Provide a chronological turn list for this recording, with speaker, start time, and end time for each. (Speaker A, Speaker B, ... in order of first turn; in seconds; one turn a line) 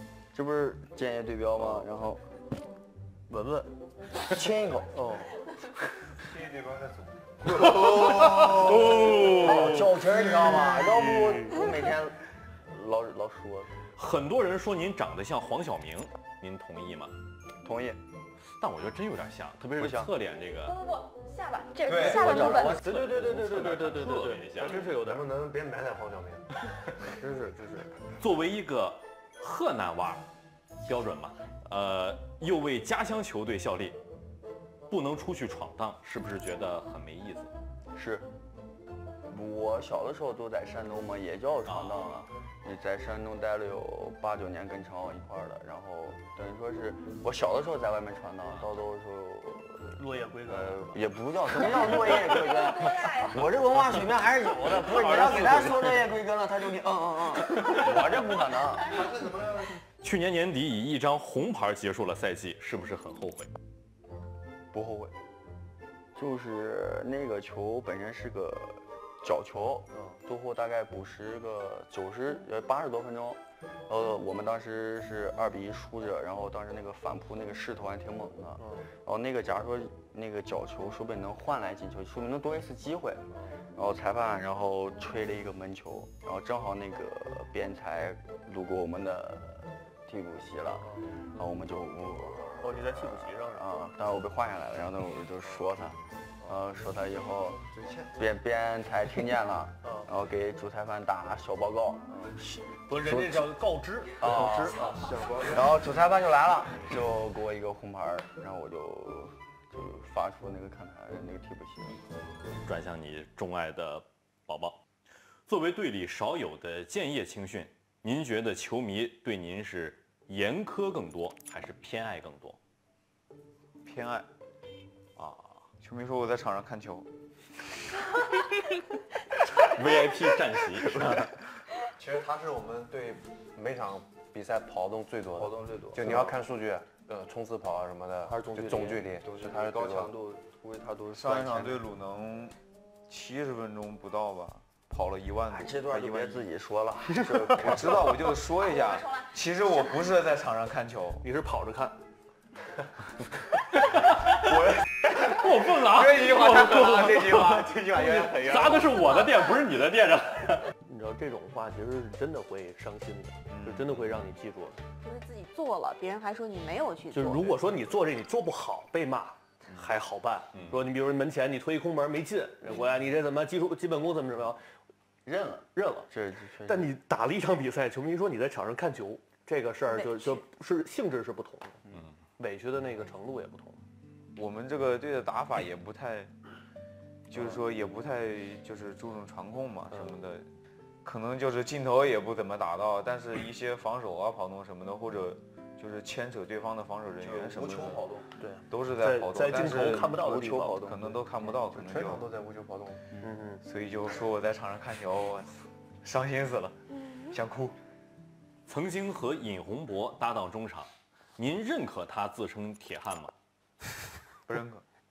Speaker A: 0.3-2.3
Speaker B: 3.3-3.7
Speaker A: 4.2-4.9
Speaker B: 4.9-5.4
Speaker C: 6.2-7.8
Speaker D: 8.0-8.3
Speaker A: 8.0-13.8
Speaker D: 8.9-9.6
Speaker D: 14.0-17.1
Speaker A: 17.6-18.0
Speaker D: 18.5-20.8
Speaker A: 19.8-20.1
Speaker E: 20.6-22.9
Speaker C: 21.9-22.2
Speaker A: 22.0-23.0
Speaker B: 22.3-25.2
Speaker D: 22.6-24.9
Speaker F: 24.6-26.5
Speaker B: 27.0-27.9
Speaker D: 28.2-30.3
Speaker D: 30.9-34.0
Speaker D: 34.9-37.5
Speaker A: 37.9-38.3
Speaker A: 39.3-59.0
Speaker D: 41.7-42.0
Speaker B: 49.9-51.0
Speaker E: 52.4-53.5
Speaker D: 54.8-56.0
Speaker F: 58.8-59.7
Speaker D: 60.0-63.5
Speaker A: 64.7-65.1
Speaker A: 66.2-97.6
Speaker B: 69.9-70.2
Speaker B: 78.6-78.9
Speaker B: 83.3-83.6
Speaker B: 90.8-91.1
Speaker B: 92.6-93.7
Speaker F: 97.7-98.2
Speaker A: 98.2-103.5
Speaker B: 99.8-100.1
Speaker B: 102.9-105.1
Speaker A: 104.2-104.9
Speaker F: 104.8-105.8
Speaker A: 105.5-112.1
Speaker D: 112.6-114.8
Speaker D: 115.5-122.6
Speaker C: 123.8-124.3
Speaker D: 125.2-125.6
Speaker C: 125.8-127.1
Speaker D: 129.5-131.5
Speaker F: 131.9-140.1
Speaker A: 135.4-136.3
Speaker B: 138.3-139.1
Speaker A: 139.2-141.8
Speaker C: 141.2-142.6
Speaker C: 143.1-146.4
Speaker A: 145.5-148.1
Speaker C: 147.5-151.2
Speaker E: 148.6-149.3
Speaker B: 151.2-152.0
Speaker C: 154.5-159.0
Speaker D: 155.3-160.7
Speaker E: 159.0-159.6
Speaker B: 160.8-164.8
Speaker C: 163.5-163.9
Speaker E: 165.0-167.6
Speaker B: 167.1-174.7
Speaker A: 175.3-176.9
Speaker B: 175.8-176.1
Speaker B: 176.7-181.8
Speaker E: 179.9-180.4
Speaker B: 182.4-183.8
Speaker C: 184.4-186.3
Speaker C: 187.3-190.5
Speaker B: 189.9-190.2
Speaker C: 191.0-198.1
Speaker A: 197.2-198.3
Speaker B: 198.4-200.9
Speaker C: 198.7-200.2
Speaker A: 200.0-201.2
Speaker C: 200.8-202.3
Speaker F: 201.6-203.1
Speaker B: 203.2-203.6
Speaker C: 203.6-206.8
Speaker C: 207.3-207.8
Speaker D: 208.7-213.3
Speaker C: 214.5-214.8